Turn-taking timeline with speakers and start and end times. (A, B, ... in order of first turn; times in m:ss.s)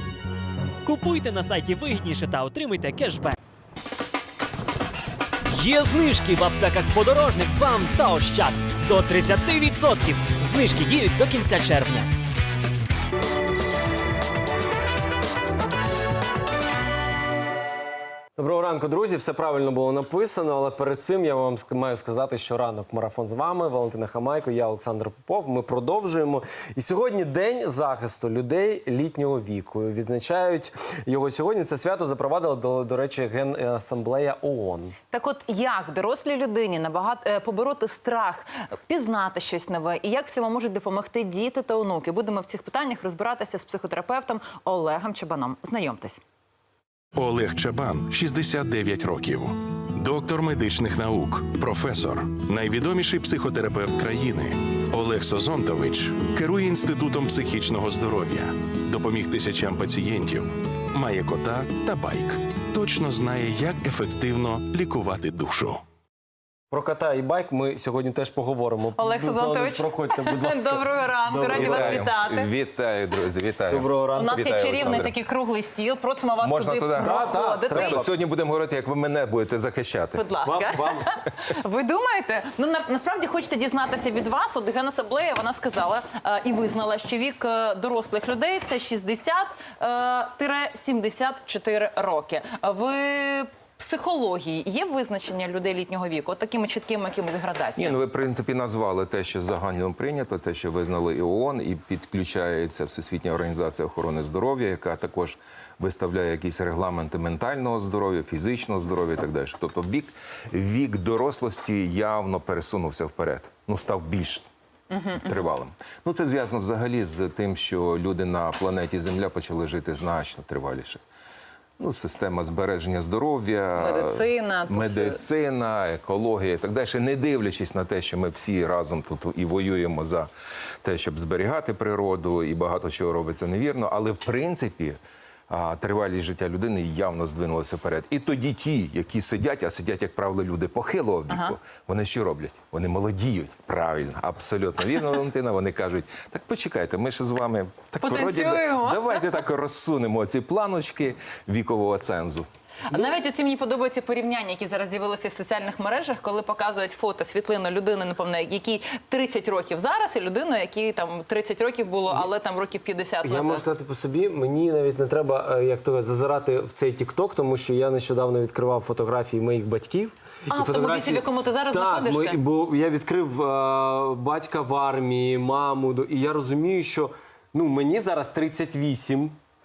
0:00.8-0:03.4 A
0:05.5-0:12.1 A
0:18.4-0:35.0 B
0:35.1-0:46.2 C
0:47.2-1:05.8 D
1:06.7-1:12.1 B
1:09.0-1:12.5 C
1:11.5-1:15.1 E
1:13.7-1:15.1 B
1:14.1-1:18.1 C
1:16.4-1:20.2 E
1:17.0-1:18.1 B
1:20.2-1:38.0 C
1:20.4-1:21.1 B
1:37.8-1:54.5 E
1:54.9-1:55.4 C
1:55.2-2:01.0 E
2:01.8-2:10.3 E
2:03.8-2:05.2 C
2:10.8-2:15.0 E
2:15.5-2:32.5 E
2:21.3-2:21.6 C
2:28.0-2:29.3 C
2:32.9-2:43.7 C
2:43.2-2:59.4 B
2:50.5-2:52.4 C